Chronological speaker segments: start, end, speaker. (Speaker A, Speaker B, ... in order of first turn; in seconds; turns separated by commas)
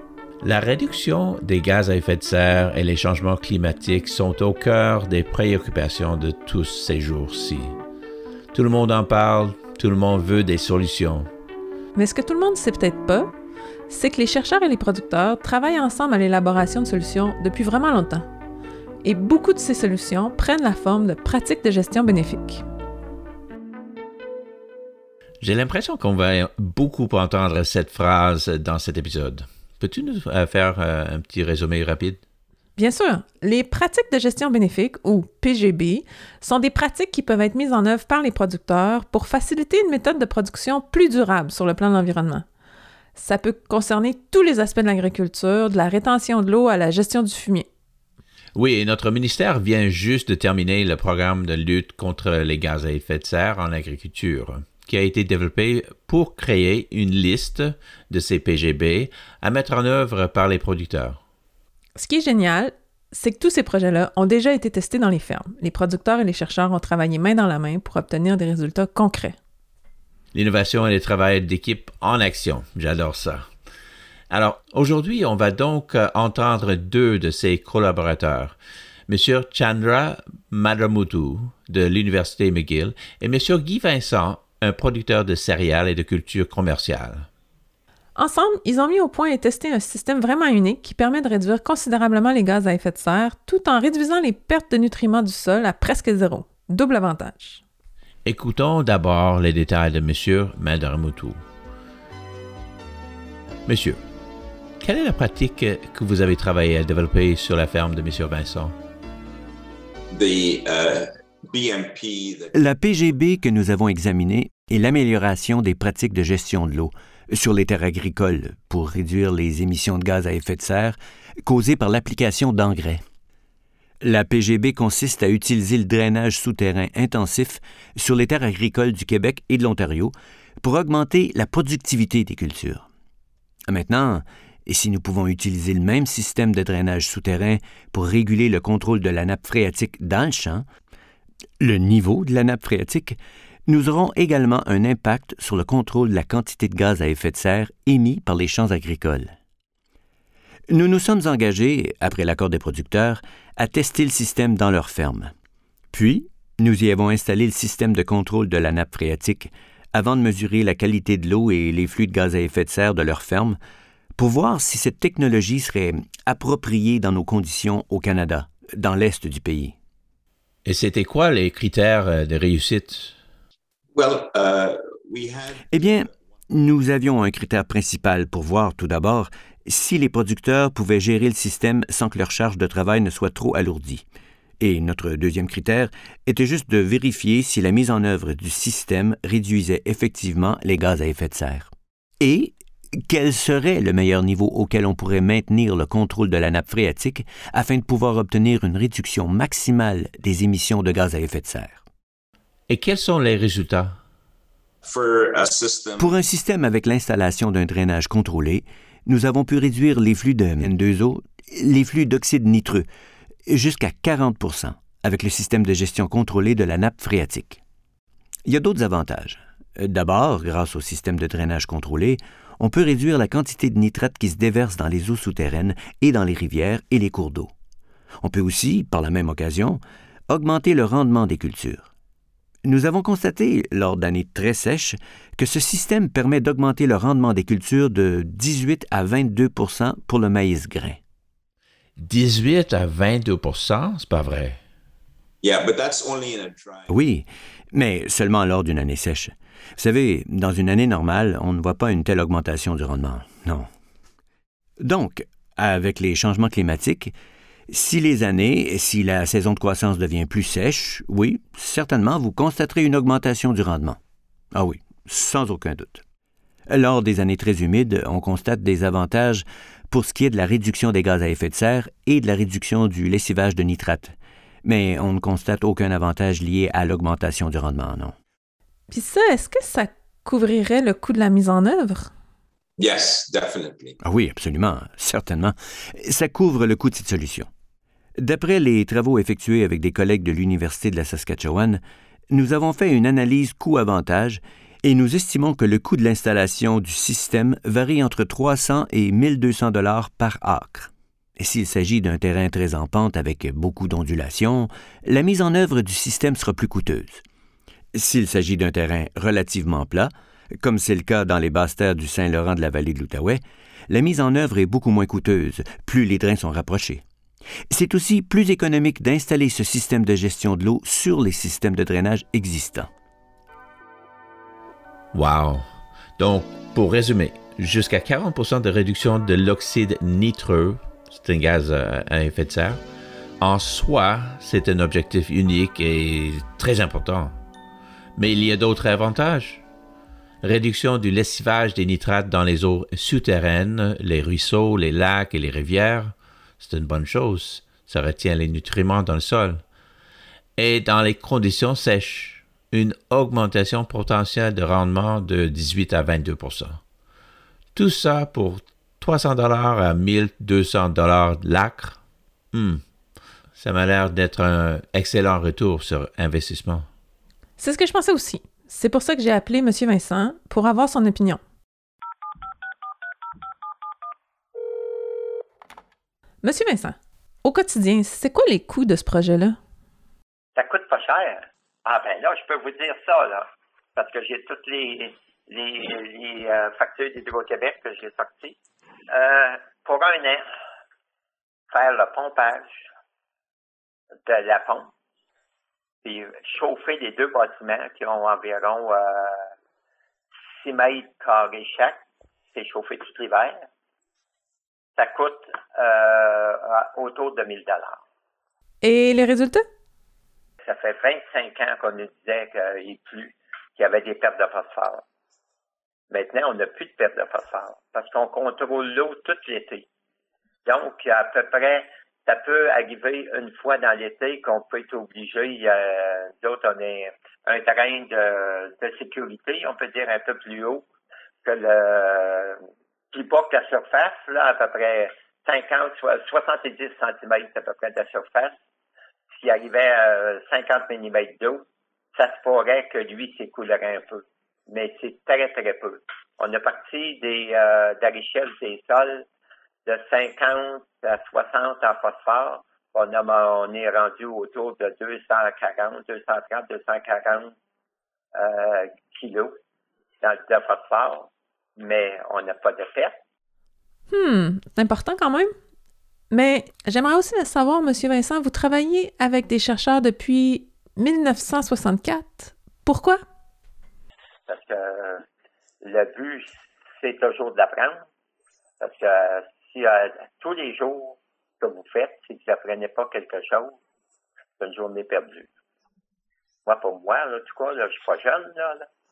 Speaker A: 0.4-7.7, Speaker A: 8.5-11.3, Speaker B: 11.9-13.3, Speaker B: 13.9-18.3, Speaker B: 19.0-22.6, Speaker A: 25.4-32.2, Speaker B: 32.8-42.5, Speaker B: 43.1-47.7, Speaker A: 48.5-61.2, Speaker B: 62.0-69.4, Speaker A: 70.3-73.4, Speaker A: 74.3-78.5, Speaker A: 79.1-87.3, Speaker B: 88.2-97.6, Speaker A: 98.2-101.4, Speaker A: 103.7-104.0, Speaker A: 104.8-108.7, Speaker C: 110.1-112.5, Speaker D: 112.5-123.0, Speaker D: 124.0-132.9, Speaker D: 133.7-140.6, Speaker D: 141.6-149.3, Speaker D: 150.7-155.3, Speaker D: 155.9-163.6, Speaker D: 164.2-169.7, Speaker A: 170.6-173.1, Speaker C: 173.9-175.7, Speaker D: 175.7-184.0, Speaker D: 184.6-192.5, Speaker D: 193.1-201.8, Speaker A: 202.7-203.9, Speaker C: 204.8-206.2, Speaker D: 206.0-212.8, Speaker D: 213.5-217.6, Speaker D: 218.4-227.5, Speaker D: 228.2-231.9, Speaker D: 232.6-241.0, Speaker A: 242.0-244.6, Speaker C: 245.4-247.0, Speaker D: 246.9-253.7, Speaker D: 254.8-257.1, Speaker D: 257.7-264.0, Speaker D: 264.5-266.0, Speaker D: 266.7-278.1, Speaker B: 278.9-282.1, Speaker C: 282.8-283.9, Speaker D: 284.0-287.5, Speaker D: 288.2-307.2, Speaker D: 307.9-317.0, Speaker D: 317.7-322.9, Speaker A: 325.1-325.6, Speaker A: 326.2-332.8, Speaker A: 333.4-337.3, Speaker A: 338.1-339.6, Speaker A: 340.4-349.6, Speaker A: 350.6-356.8, Speaker A: 357.7-362.0, Speaker A: 362.5-362.8, Speaker A: 363.6-366.9, Speaker B: 367.6-371.4, Speaker B: 376.4-379.6, Speaker E: 380.6-388.6, Speaker E: 389.1-390.4, Speaker E: 391.7-392.9, Speaker E: 394.2-394.9, Speaker E: 396.0-399.4, Speaker E: 400.6-402.0, Speaker E: 402.5-403.6, Speaker E: 405.0-408.0, Speaker B: 408.8-409.6, Speaker E: 410.6-415.0, Speaker E: 416.1-419.9, Speaker E: 420.6-430.9, Speaker E: 431.4-432.6, Speaker E: 433.1-438.5, Speaker E: 439.3-449.3, Speaker E: 449.9-457.5, Speaker E: 458.3-459.6, Speaker E: 460.2-463.2, Speaker B: 464.1-465.5, Speaker B: 466.3-473.2, Speaker E: 474.5-475.2, Speaker E: 475.8-478.0, Speaker E: 478.8-483.8, Speaker E: 484.6-485.5, Speaker E: 486.6-488.9